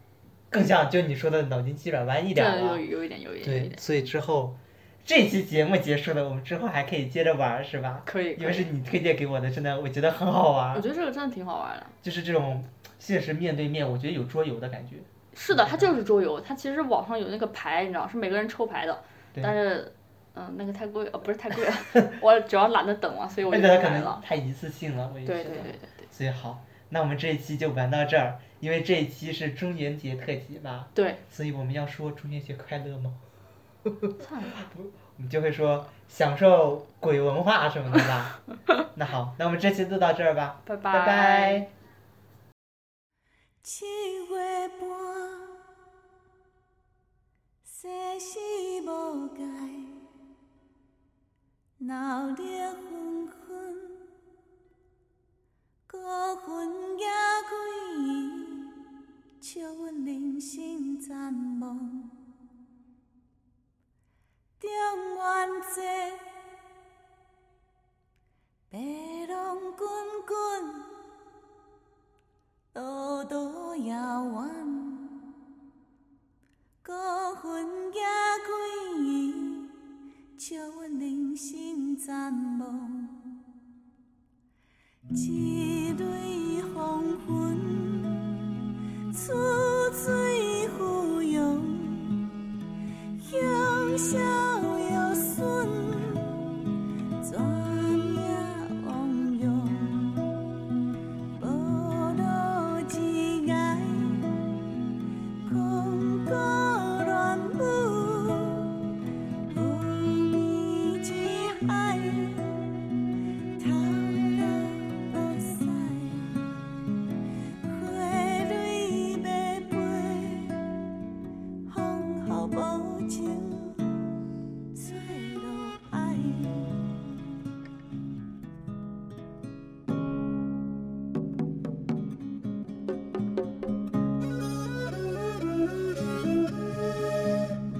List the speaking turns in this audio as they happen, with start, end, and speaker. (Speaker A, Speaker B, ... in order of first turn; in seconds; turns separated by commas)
Speaker A: 0.5-2.8, Speaker B: 2.3-3.8, Speaker A: 3.4-10.8, Speaker B: 8.1-8.7, Speaker B: 10.7-11.9, Speaker A: 12.0-16.0, Speaker B: 15.3-24.2, Speaker A: 23.5-33.2, Speaker B: 25.2-26.1, Speaker B: 30.9-31.2, Speaker B: 34.2-34.6, Speaker A: 34.6-38.4, Speaker A: 38.9-41.7, Speaker B: 40.6-41.7, Speaker C: 43.6-45.6, Speaker C: 47.6-50.0, Speaker C: 51.8-54.1, Speaker C: 55.9-58.8, Speaker C: 59.4-62.1, Speaker C: 64.6-66.3, Speaker C: 68.7-70.9, Speaker C: 72.7-75.2, Speaker C: 76.8-79.8, Speaker C: 80.3-83.2, Speaker C: 85.1-88.5, Speaker C: 89.1-92.3, Speaker C: 93.2-96.6, Speaker C: 97.2-100.4, Speaker C: 101.3-104.6, Speaker C: 105.4-108.9, Speaker C: 109.5-112.8, Speaker C: 113.6-116.4, Speaker C: 117.6-120.8, Speaker C: 121.7-124.1, Speaker C: 124.7-126.9